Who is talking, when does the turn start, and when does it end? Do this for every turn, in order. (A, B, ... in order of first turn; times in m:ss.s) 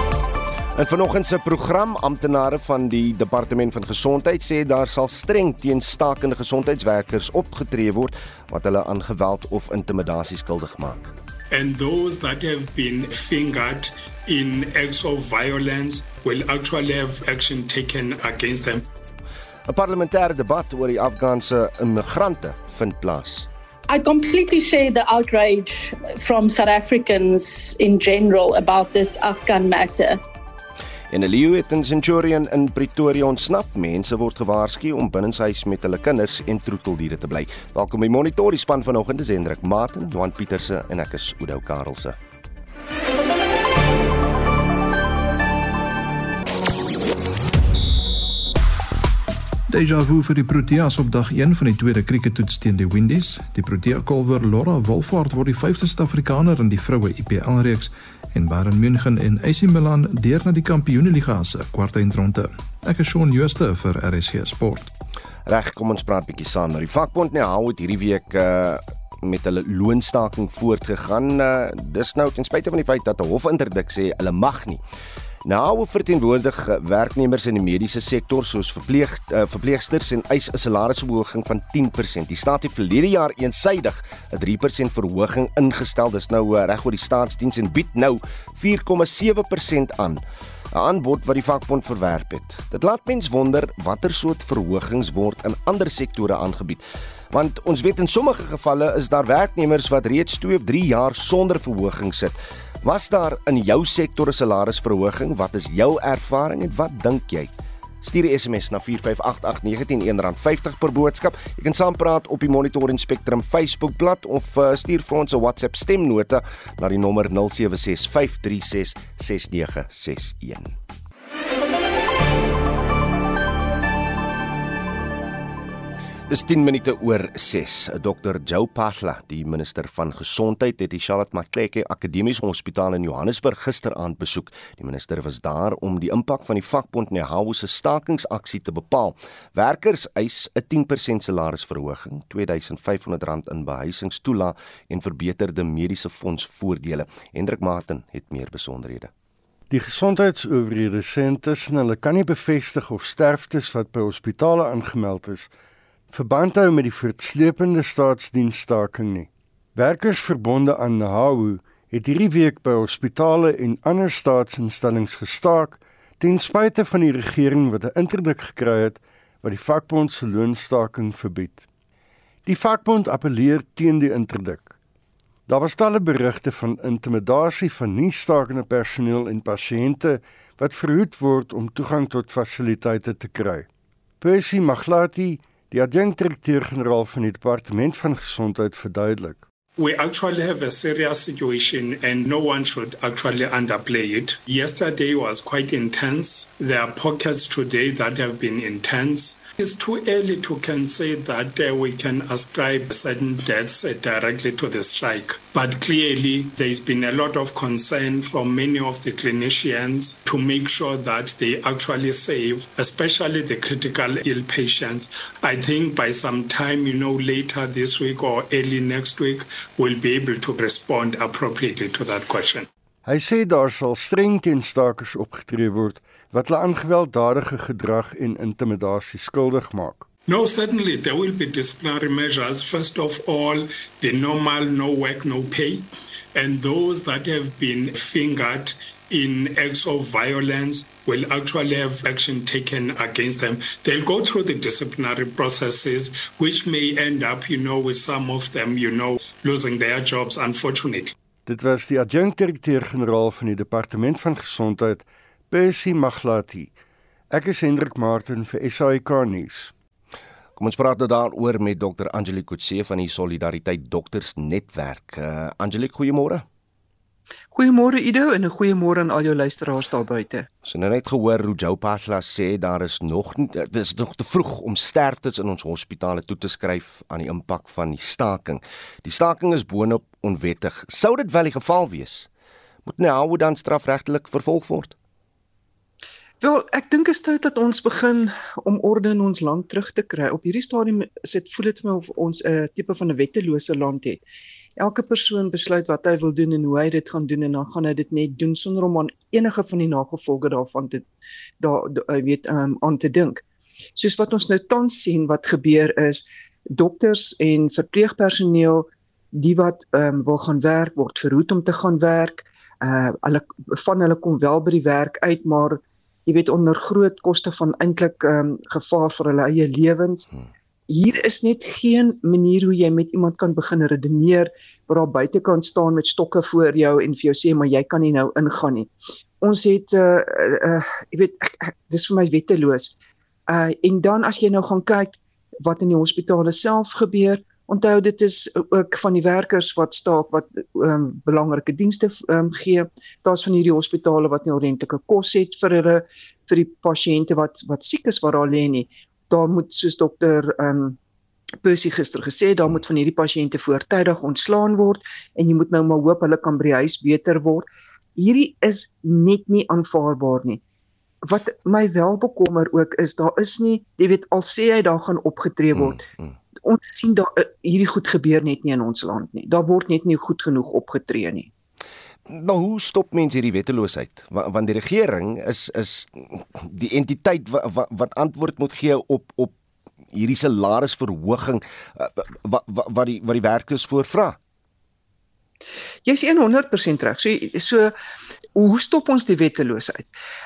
0:00.7-0:11.1 A
0:11.5-0:18.9 B
0:19.7-0:23.5 A
0:23.9-0:30.2 C
0:31.1-0:42.2 A
0:49.7-1:04.9 D
1:05.4-1:14.8 A
1:15.4-2:00.7 A
2:06.3-2:29.1 A
2:29.7-2:35.5 E
2:36.1-2:51.6 E
2:52.4-2:54.7 E
2:55.5-3:03.7 E
3:04.2-3:09.4 E
3:09.8-3:42.7 B
3:43.0-3:50.0 E
3:50.3-4:11.1 B
4:11.4-4:16.7 E
4:17.3-4:19.7 E
4:20.6-4:26.4 A
4:27.5-4:30.5 F
4:30.6-4:42.3 A
4:42.8-4:44.9 A
4:46.4-4:54.2 F
4:54.8-5:01.0 F
5:01.6-5:03.4 F
5:04.0-5:20.3 F
5:20.9-5:32.9 F
5:33.5-5:51.0 F
5:51.6-6:00.6 F
6:01.2-6:06.1 F
6:06.6-6:11.5 F
6:12.3-6:19.5 A
6:20.1-6:24.4 A
6:26.0-6:27.9 F
6:28.5-6:30.1 F